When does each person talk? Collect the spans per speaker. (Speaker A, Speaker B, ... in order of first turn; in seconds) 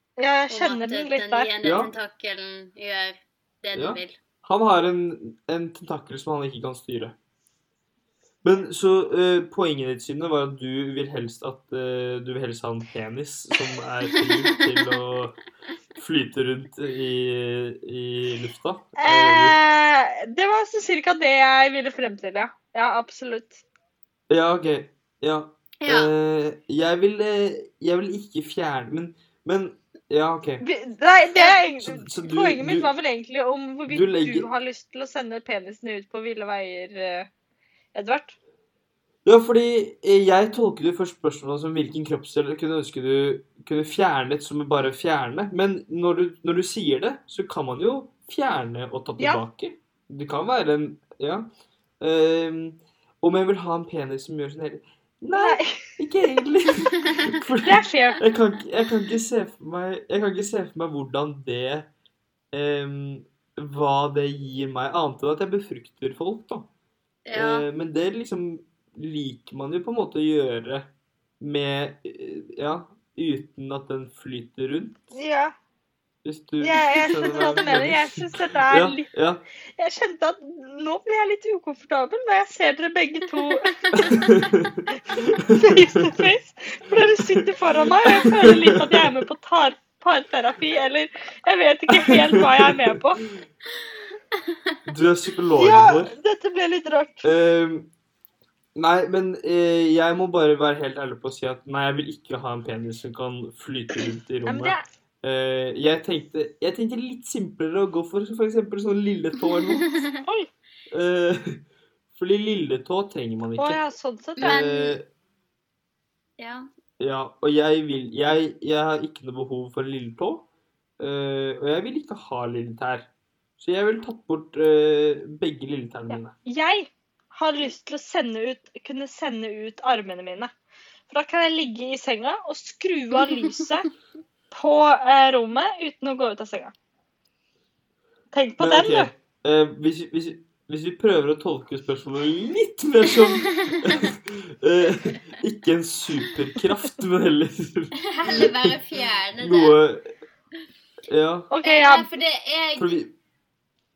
Speaker A: 0.2-1.5, 19.0-23.6, 30.6-37.3, 37.9-38.4, 55.3-55.8, 57.6-58.2, 75.1-75.5, 76.6-79.1, 79.8-84.4, 85.1-93.2, 95.6-97.3, 104.4-104.8, 113.6-114.6, 126.1-130.5, 131.1-133.9, 134.5-136.7, 138.3-139.1, 151.5-152.1
Speaker B: 0.5-4.2, 25.8-26.1, 67.3-67.7, 94.3-94.8, 109.8-110.2, 114.4-115.0, 116.4-116.7, 143.5-143.9, 148.1-149.8, 151.6-153.0
Speaker C: 1.6-1.9, 3.7-7.1, 8.4-15.4, 15.9-19.6, 24.3-30.6, 31.4-32.9, 33.9-34.5, 39.2-51.5, 52.0-61.9, 62.5-66.7, 67.3-75.0, 76.2-79.4, 83.9-86.3, 86.9-89.1, 91.9-93.0, 94.9-96.1, 97.2-97.9, 98.8-110.0, 110.9-111.6, 112.1-113.8, 114.4-115.0, 117.0-120.5, 121.0-126.4, 138.6-148.5, 149.4-150.1, 151.1-151.5, 152.8-153.1